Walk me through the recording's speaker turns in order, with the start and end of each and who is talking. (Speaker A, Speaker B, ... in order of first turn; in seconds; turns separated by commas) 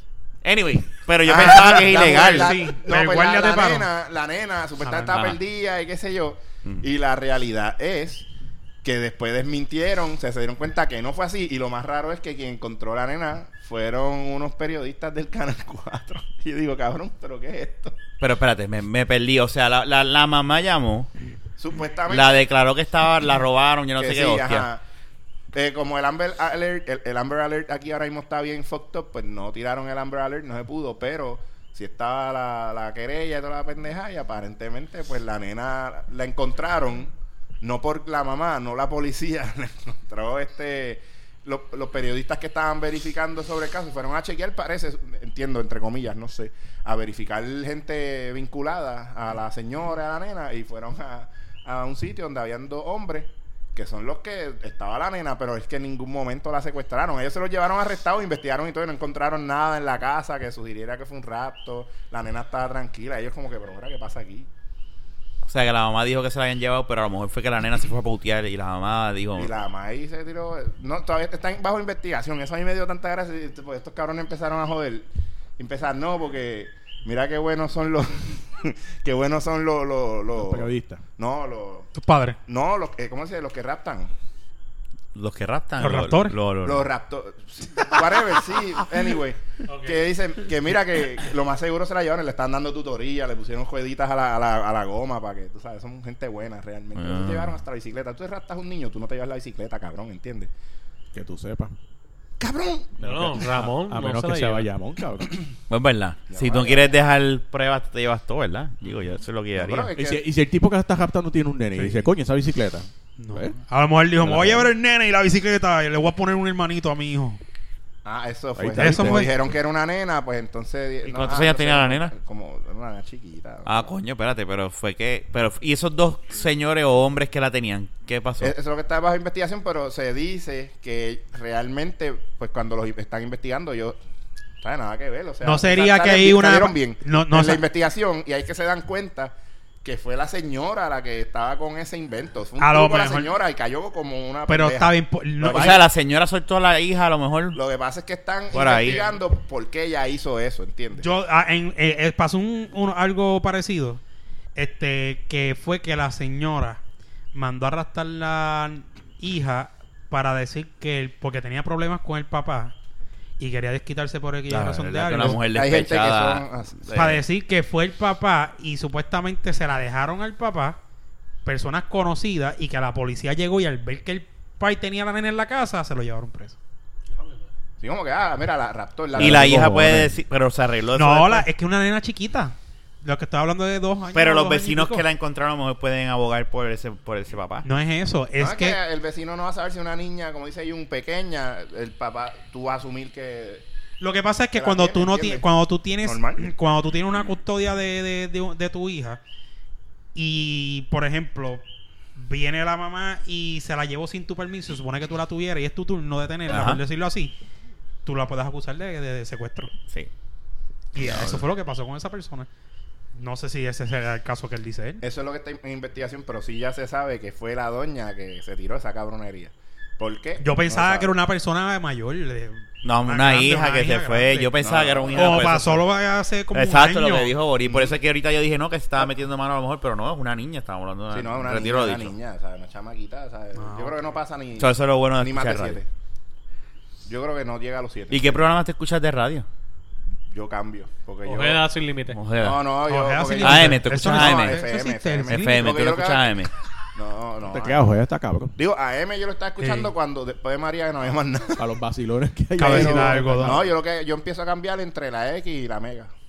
Speaker A: 0.4-2.6, Speaker B: 1.2-8.2, Speaker C: 1.3-3.9, Speaker C: 4.8-5.1, Speaker A: 5.0-5.3, Speaker B: 8.8-18.0, Speaker A: 18.2-21.1, Speaker B: 21.6-22.4, Speaker A: 22.1-24.7, Speaker B: 24.0-24.8, Speaker B: 25.5-64.5, Speaker A: 65.4-69.5, Speaker B: 69.3-75.1, Speaker B: 75.6-81.9, Speaker D: 80.3-81.0, Speaker C: 81.9-82.4, Speaker B: 82.5-84.1, Speaker A: 85.1-86.9, Speaker C: 85.8-86.3, Speaker B: 86.6-100.5, Speaker E: 89.7-90.0, Speaker A: 96.9-97.6, Speaker D: 101.1-101.7, Speaker B: 102.4-102.9, Speaker D: 103.0-105.3, Speaker E: 103.0-104.7, Speaker A: 105.7-109.9, Speaker B: 106.3-107.0, Speaker B: 109.6-110.2, Speaker D: 109.9-113.5, Speaker C: 111.8-112.0, Speaker C: 113.2-117.4, Speaker D: 114.2-114.7, Speaker B: 118.0-123.9, Speaker D: 118.5-119.3, Speaker C: 118.8-119.3, Speaker A: 121.0-122.1, Speaker A: 123.7-128.5, Speaker B: 128.4-134.0, Speaker B: 134.6-145.9, Speaker C: 135.4-137.6, Speaker C: 142.6-143.3, Speaker C: 144.5-145.8, Speaker A: 145.5-147.6, Speaker B: 147.5-151.1, Speaker A: 148.5-149.0, Speaker C: 151.0-154.0, Speaker C: 154.6-156.8, Speaker C: 157.3-162.7, Speaker C: 163.4-165.4, Speaker A: 164.5-167.2, Speaker B: 165.5-166.9, Speaker C: 166.9-170.8, Speaker C: 171.4-176.6, Speaker E: 177.1-177.5, Speaker B: 177.8-179.7, Speaker A: 179.1-181.4, Speaker D: 179.2-180.1, Speaker C: 180.9-185.1, Speaker A: 184.1-187.7, Speaker C: 187.6-188.8, Speaker B: 188.4-193.6, Speaker C: 194.0-199.2, Speaker B: 194.5-195.4, Speaker B: 196.0-196.5, Speaker C: 200.1-201.6, Speaker C: 202.2-207.3, Speaker A: 206.5-206.8, Speaker C: 208.0-209.7, Speaker C: 210.9-212.5, Speaker A: 211.0-211.4, Speaker C: 213.1-215.0, Speaker B: 215.0-221.1, Speaker C: 220.4-224.5, Speaker A: 222.8-225.8, Speaker B: 224.6-225.4, Speaker C: 225.1-227.3, Speaker A: 226.5-232.1, Speaker B: 227.6-227.9, Speaker B: 231.1-235.9, Speaker C: 233.5-234.0, Speaker A: 234.6-235.8, Speaker B: 237.1-238.5, Speaker A: 238.1-239.4, Speaker B: 240.3-241.6, Speaker E: 241.2-242.2, Speaker A: 242.1-242.6, Speaker B: 242.4-246.3, Speaker C: 242.9-245.7, Speaker A: 243.4-244.7, Speaker A: 245.3-246.5, Speaker B: 246.9-247.8, Speaker D: 247.4-248.5, Speaker B: 248.6-251.7, Speaker C: 249.6-249.9, Speaker D: 251.6-253.7, Speaker C: 252.6-253.6, Speaker B: 252.6-256.1